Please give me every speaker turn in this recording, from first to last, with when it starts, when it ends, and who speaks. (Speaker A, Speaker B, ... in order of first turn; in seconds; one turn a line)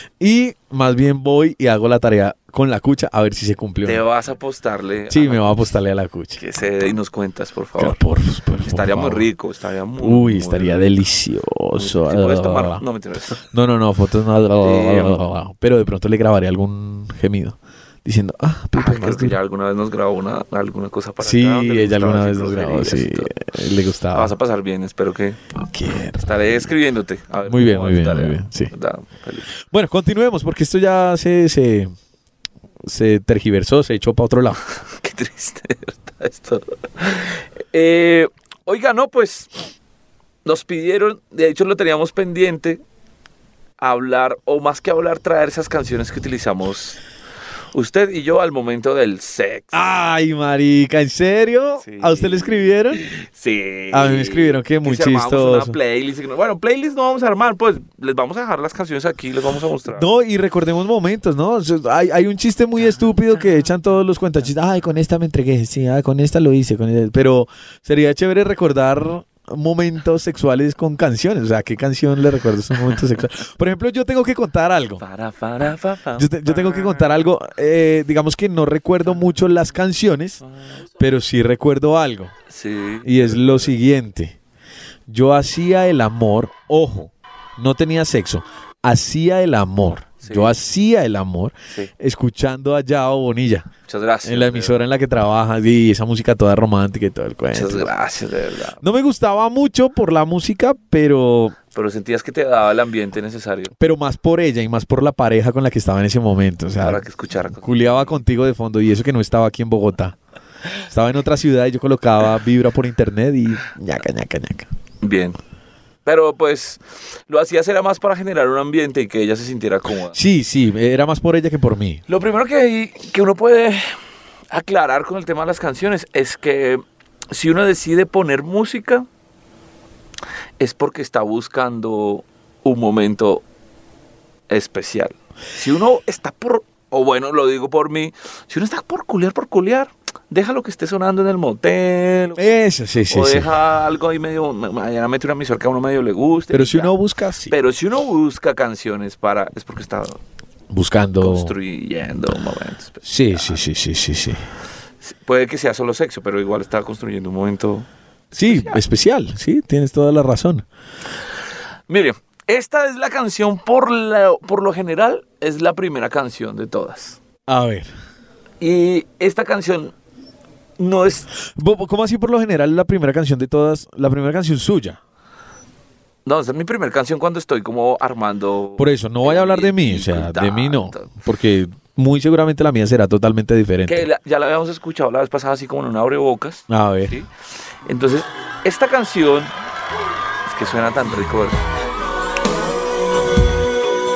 Speaker A: 0.2-4.0
Speaker B: 3.8-5.6
Speaker A: 5.1-6.4
Speaker B: 6.4-8.0
Speaker A: 7.8-9.3
Speaker B: 8.6-11.0
Speaker A: 10.0-12.8
Speaker B: 11.7-13.4
Speaker A: 13.5-19.4
Speaker B: 14.6-15.2
Speaker B: 18.7-23.3
Speaker A: 21.2-24.3
Speaker B: 24.1-25.4
Speaker A: 25.6-26.3
Speaker B: 26.2-29.5
Speaker A: 27.4-28.7
Speaker A: 29.6-31.9
Speaker A: 32.8-34.6
Speaker B: 34.8-39.5
Speaker B: 40.4-42.8
Speaker B: 43.8-47.0
Speaker B: 47.7-49.8
Speaker A: 49.7-53.1
Speaker B: 51.8-60.1
Speaker A: 53.9-55.8
Speaker A: 59.9-75.0
Speaker B: 75.0-77.2
Speaker A: 76.2-80.4
Speaker B: 80.4-80.7
Speaker A: 81.0-82.3
Speaker B: 82.5-83.7
Speaker A: 83.0-84.3
Speaker A: 85.1-93.7
Speaker B: 90.2-90.5
Speaker B: 93.9-94.8
Speaker A: 94.2-97.9
Speaker B: 97.5-98.8
Speaker A: 98.8-101.5
Speaker B: 101.7-103.7
Speaker A: 103.8-107.0
Speaker B: 106.8-108.2
Speaker A: 107.6-110.2
Speaker A: 110.8-114.7
Speaker B: 115.0-115.4
Speaker B: 116.0-120.2
Speaker A: 120.1-122.0
Speaker B: 122.1-123.9
Speaker B: 124.5-129.1
Speaker B: 130.6-133.4
Speaker B: 134.5-146.9
Speaker A: 142.4-143.5
Speaker A: 146.5-147.5
Speaker B: 147.5-150.2
Speaker A: 150.7-151.5
Speaker B: 151.2-153.6
Speaker A: 153.0-154.4
Speaker B: 155.0-158.8
Speaker A: 158.3-160.6
Speaker B: 161.9-167.2
Speaker A: 167.5-167.9
Speaker B: 168.6-169.9
Speaker B: 170.8-171.3
Speaker A: 171.6-175.0
Speaker B: 176.2-181.1
Speaker A: 178.8-184.1
Speaker B: 183.8-187.3
Speaker A: 186.7-187.1
Speaker B: 187.8-189.5
Speaker B: 190.4-191.6